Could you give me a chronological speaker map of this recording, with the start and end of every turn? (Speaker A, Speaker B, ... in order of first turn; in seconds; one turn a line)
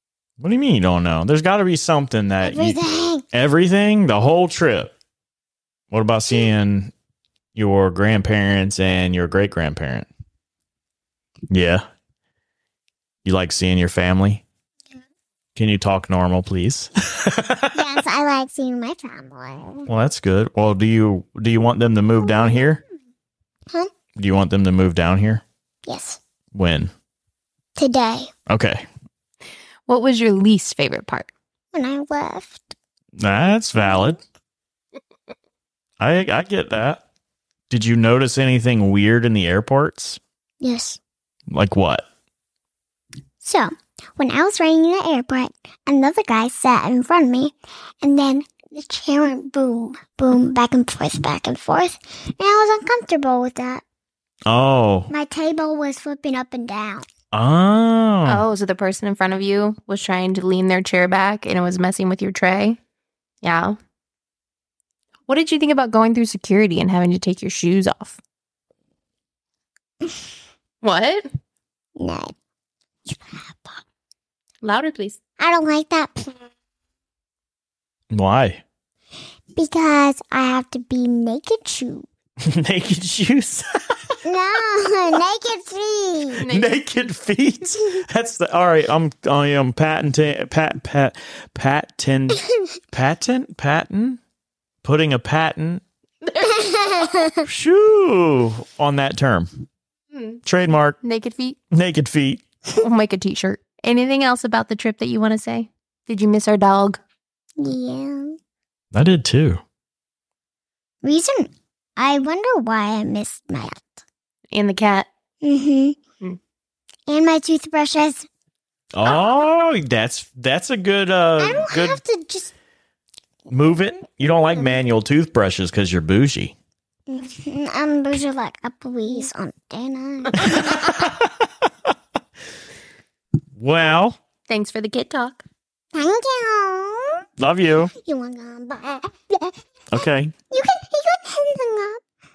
Speaker A: 0.4-2.8
Speaker B: 2.4-3.2
Speaker A: 3.3-4.9
Speaker A: 5.9-6.9
Speaker A: 7.5-10.1
Speaker A: 11.5-11.8
Speaker A: 13.2-14.4
Speaker A: 15.5-18.0
Speaker B: 17.7-19.9
Speaker A: 19.9-22.8
Speaker B: 22.3-22.6
Speaker A: 24.1-25.4
Speaker B: 25.8-26.2
Speaker A: 26.5-26.9
Speaker B: 27.8-28.3
Speaker A: 28.5-28.8
Speaker C: 29.9-31.3
Speaker B: 31.7-32.7
Speaker A: 33.2-34.2
Speaker A: 36.0-37.0
Speaker A: 37.7-40.2
Speaker B: 40.6-41.0
Speaker A: 41.5-42.0
Speaker B: 43.4-53.8
Speaker A: 54.5-55.1
Speaker B: 55.1-57.0
Speaker A: 57.3-58.4
Speaker C: 58.2-62.8
Speaker C: 63.4-63.8
Speaker C: 65.3-68.2
Speaker C: 70.8-71.2
Speaker B: 72.0-72.3
Speaker B: 73.0-73.8
Speaker C: 74.6-75.2
Speaker B: 75.4-76.5
Speaker A: 78.1-78.6
Speaker B: 79.5-82.1
Speaker A: 82.4-84.2
Speaker B: 84.2-86.5
Speaker C: 86.4-86.7
Speaker A: 86.5-94.2
Speaker A: 94.8-95.8
Speaker C: 96.4-97.3
Speaker B: 96.5-97.4
Speaker A: 97.4-99.6
Speaker C: 100.1-100.4
Speaker A: 100.4-101.0
Speaker C: 101.0-101.6
Speaker A: 101.7-102.4
Speaker C: 102.8-107.0
Speaker B: 107.6-108.4
Speaker A: 108.9-109.6
Speaker B: 111.0-114.0
Speaker C: 114.5-115.1
Speaker B: 115.4-116.0
Speaker B: 117.1-118.3
Speaker A: 118.9-122.0
Speaker B: 121.4-122.5
Speaker A: 123.5-126.5
Speaker B: 127.1-131.1
Speaker A: 130.3-131.9
Speaker A: 133.6-134.2
Speaker C: 134.5-135.4
Speaker B: 135.9-137.2
Speaker A: 137.4-137.9
Speaker B: 137.9-139.5
Speaker A: 139.9-140.3
Speaker B: 140.5-142.0